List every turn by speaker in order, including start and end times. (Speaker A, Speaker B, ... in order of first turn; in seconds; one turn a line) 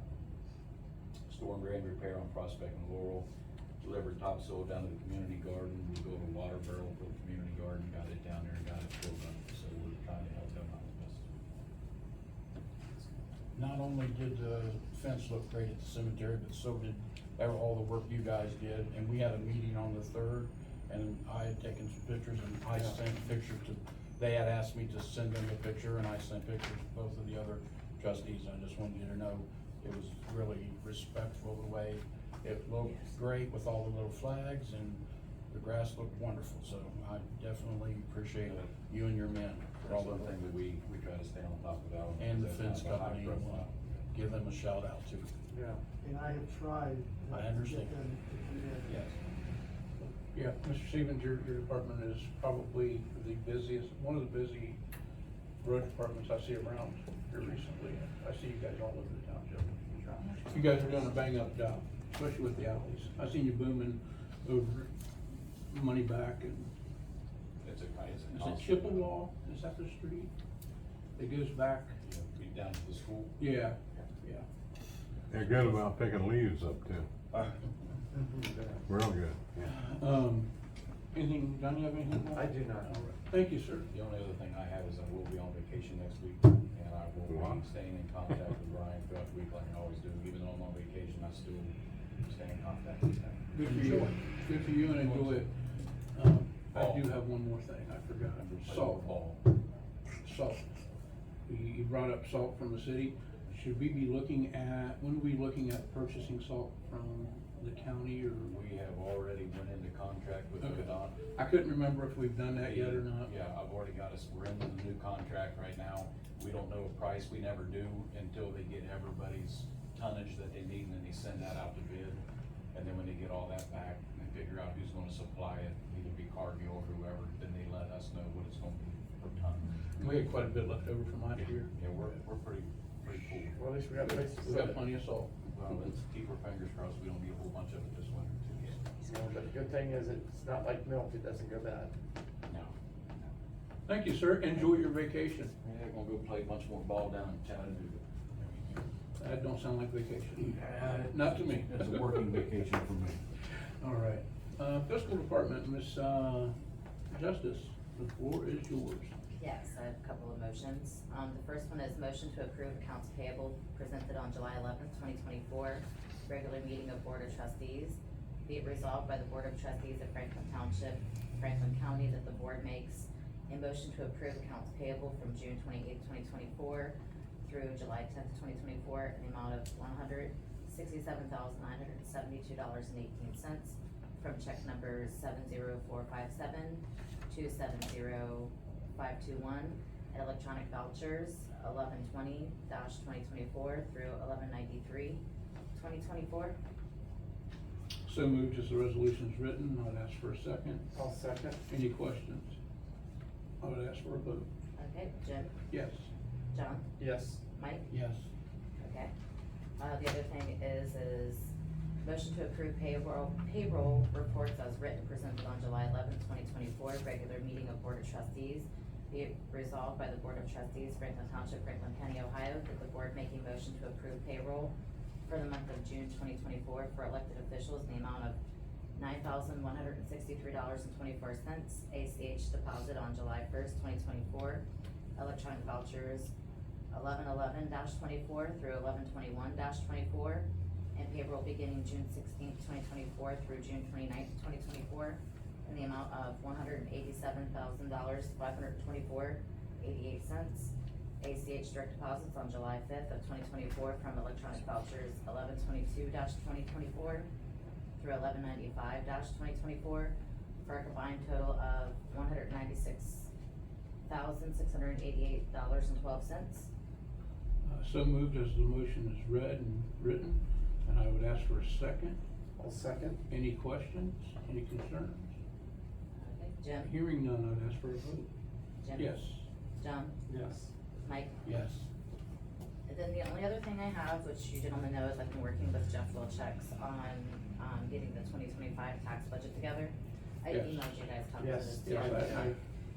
Speaker A: 1.3-3.3
Speaker A: 3.8-11.3
Speaker B: 13.6-40.3
Speaker A: 38.4-38.7
Speaker A: 39.8-44.0
Speaker B: 42.2-45.3
Speaker C: 45.5-45.8
Speaker D: 46.0-49.0
Speaker B: 47.3-48.0
Speaker B: 48.9-49.2
Speaker E: 50.0-54.8
Speaker E: 55.6-64.9
Speaker E: 65.7-66.7
Speaker A: 67.6-69.1
Speaker E: 68.3-70.3
Speaker E: 71.2-72.0
Speaker A: 72.0-73.4
Speaker E: 73.4-74.5
Speaker F: 75.3-77.1
Speaker C: 78.2-78.8
Speaker F: 78.9-79.7
Speaker E: 79.7-80.5
Speaker E: 81.1-83.9
Speaker C: 82.3-82.9
Speaker A: 83.9-91.7
Speaker F: 87.3-87.6
Speaker A: 92.3-94.0
Speaker E: 93.5-95.5
Speaker B: 93.6-94.1
Speaker E: 96.1-99.1
Speaker A: 96.7-97.1
Speaker A: 98.4-99.4
Speaker E: 100.2-100.7
Speaker E: 101.5-108.5
Speaker A: 108.4-111.2
Speaker E: 110.6-113.3
Speaker A: 112.5-122.2
Speaker A: 122.7-129.8
Speaker E: 129.9-132.1
Speaker A: 131.6-133.6
Speaker C: 133.6-134.8
Speaker E: 134.0-135.3
Speaker A: 135.5-139.1
Speaker C: 139.1-141.9
Speaker A: 142.5-143.3
Speaker E: 143.9-145.5
Speaker A: 145.6-148.9
Speaker E: 149.2-152.4
Speaker A: 150.4-153.2
Speaker E: 153.8-156.6
Speaker E: 157.1-159.1
Speaker G: 159.4-195.2
Speaker G: 195.8-196.6
Speaker E: 198.1-200.8
Speaker C: 200.9-201.6
Speaker E: 201.7-202.6
Speaker E: 203.6-204.5
Speaker G: 204.8-205.7
Speaker E: 205.7-206.1
Speaker G: 206.5-206.9
Speaker C: 207.0-207.4
Speaker G: 207.6-207.9
Speaker B: 207.9-208.3
Speaker G: 208.8-209.1
Speaker G: 209.8-224.8
Speaker G: 225.3-228.4
Speaker G: 228.9-234.7
Speaker G: 235.2-236.3
Speaker G: 236.9-257.3
Speaker G: 258.0-263.3
Speaker G: 264.1-266.7
Speaker E: 267.6-272.2
Speaker C: 272.6-273.2
Speaker E: 273.3-275.3
Speaker G: 276.2-276.9
Speaker E: 276.8-278.3
Speaker G: 278.8-279.2
Speaker E: 278.9-279.5
Speaker G: 279.8-280.1
Speaker C: 280.3-280.7
Speaker G: 281.0-281.4
Speaker B: 281.4-281.9
Speaker G: 282.9-292.6
Speaker E: 290.5-290.9
Speaker C: 291.4-292.6
Speaker E: 291.9-292.4